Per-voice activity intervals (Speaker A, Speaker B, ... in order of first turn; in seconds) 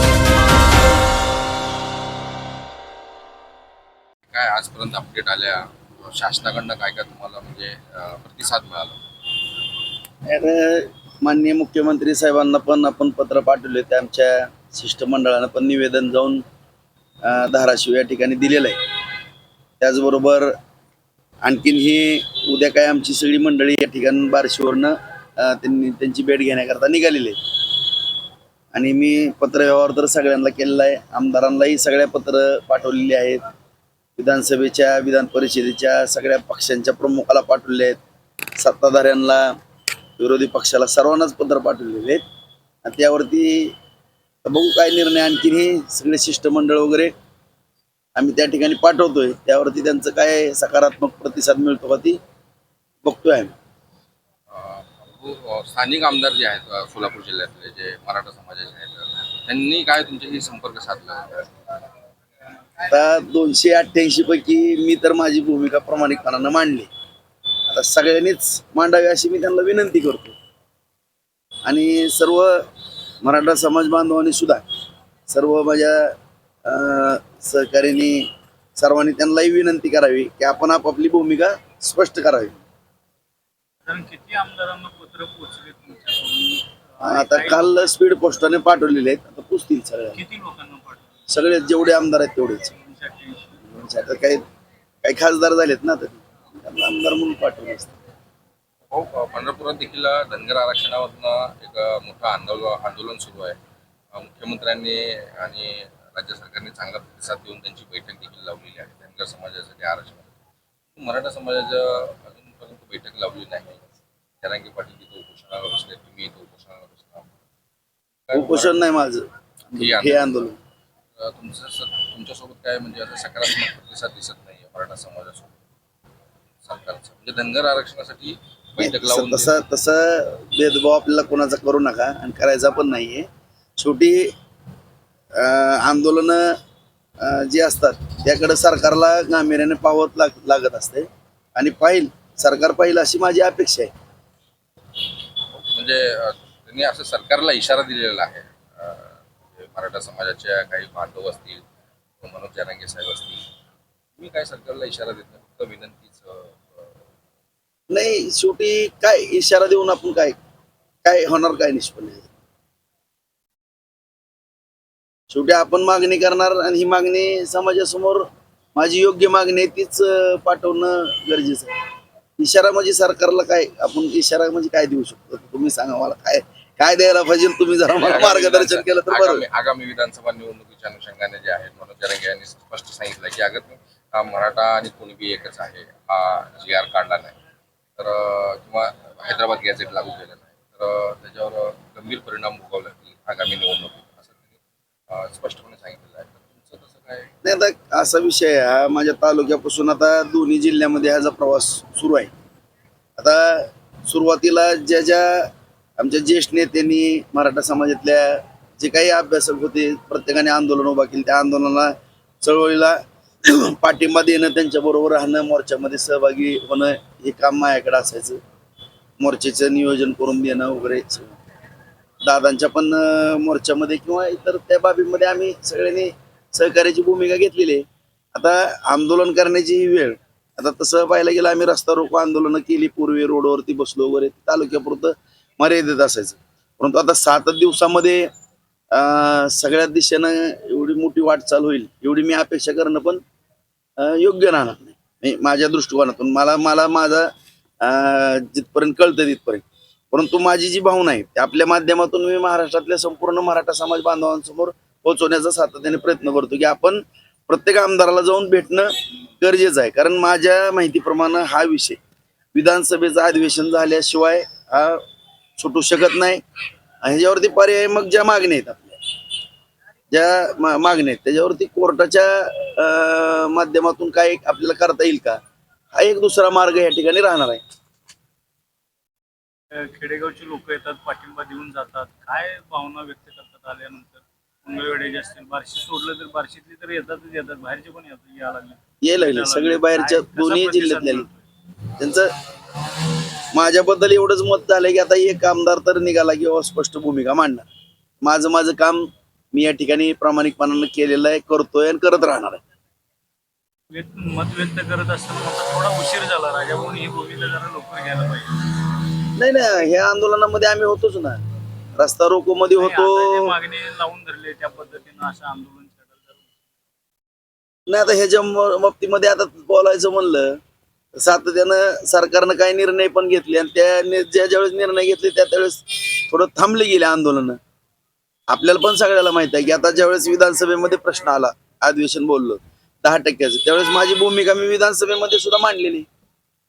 Speaker A: 4.3-9.0, 54.5-61.5, 98.9-103.6, 104.1-110.3, 110.9-113.8, 114.4-117.3, 118.3-118.8, 119.8-120.5, 121.2-125.6, 126.6-129.6, 145.5-151.6, 152.2-153.4, 154.2-157.0, 177.9-187.4, 188.0-194.5, 195.1-197.3
Speaker B: 10.3-16.4, 17.2-18.8, 19.8-20.5, 21.4-27.4, 28.7-33.4, 34.2-38.0, 38.6-39.5, 40.2-42.2, 42.9-43.8, 44.5-47.1, 48.1-52.2, 53.0-53.5, 62.9-66.9, 67.7-70.4, 71.7-72.7, 73.2-74.6, 75.3-76.1, 76.7-82.6, 87.0-90.2, 91.3-92.7, 93.7-94.4, 95.0-97.9, 118.3-120.6, 128.8-133.3, 133.8-134.3, 135.3-136.6, 137.2-143.9, 157.9-160.3, 161.0-162.3, 165.3-171.7, 172.4-179.4, 197.4-202.3, 203.2-218.4, 219.2-221.3, 222.2-238.3, 238.9-243.2, 244.0-247.3, 247.8-262.0, 262.5-265.0, 265.6-266.4, 267.0-269.0, 270.1-275.4, 275.9-277.6, 289.0-291.3, 292.0-292.3, 293.5-297.6, 298.2-302.6, 309.4-311.4, 312.0-313.5, 317.9-320.6, 321.1-327.6, 328.5-336.1
Speaker C: 83.9-87.9, 90.1-91.1, 92.7-93.6, 279.7-291.4, 303.9-308.6, 312.8-316.4